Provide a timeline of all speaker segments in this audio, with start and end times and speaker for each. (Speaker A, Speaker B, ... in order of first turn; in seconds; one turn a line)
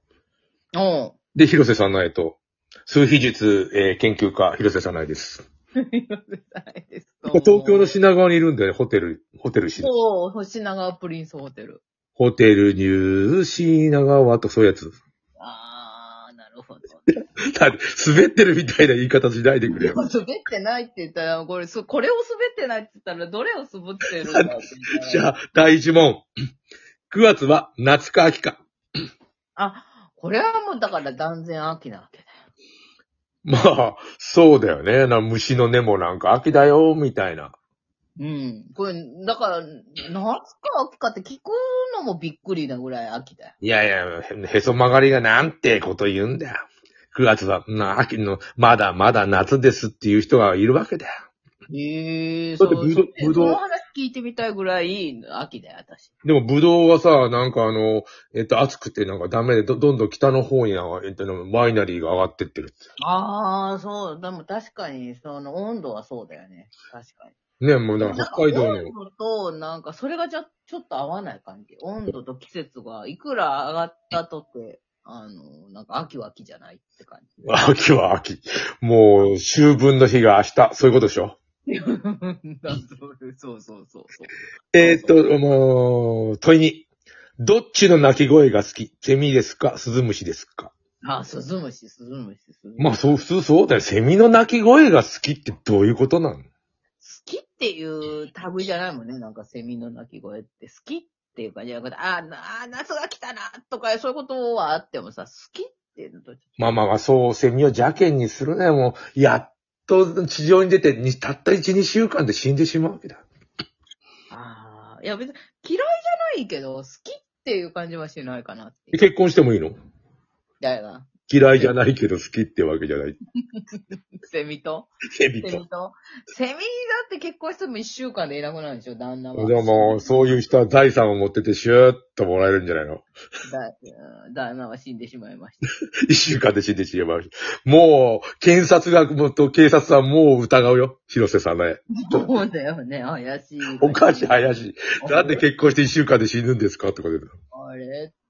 Speaker A: 0.7-1.2
Speaker B: 1.3-5.4
Speaker A: 5.8-7.9
Speaker B: 7.3-9.9
Speaker A: 9.8-11.8
Speaker B: 12.2-14.9
Speaker A: 15.4-17.1
Speaker B: 17.1-20.0
Speaker A: 19.7-25.3
Speaker B: 24.3-26.2
Speaker B: 27.1-28.6
Speaker A: 29.6-32.4
Speaker B: 33.4-37.5
Speaker A: 38.2-43.5
Speaker B: 43.6-51.1
Speaker A: 51.7-56.1
Speaker B: 52.6-53.6
Speaker B: 56.2-62.9
Speaker A: 63.0-67.3
Speaker B: 67.6-68.9
Speaker A: 68.0-77.3
Speaker B: 77.4-81.4
Speaker A: 81.7-85.2
Speaker B: 84.7-86.8
Speaker B: 87.4-90.7
Speaker A: 91.0-93.0
Speaker B: 92.8-96.5
Speaker A: 97.0-106.4
Speaker B: 106.6-113.2
Speaker A: 114.3-119.0
Speaker B: 118.9-119.8
Speaker A: 120.6-121.8
Speaker B: 121.3-123.2
Speaker A: 123.5-124.9
Speaker B: 125.1-125.6
Speaker A: 125.4-130.4
Speaker B: 129.3-133.0
Speaker A: 133.4-135.6
Speaker B: 136.1-142.3
Speaker A: 142.0-145.5
Speaker B: 143.8-147.3
Speaker A: 147.5-148.1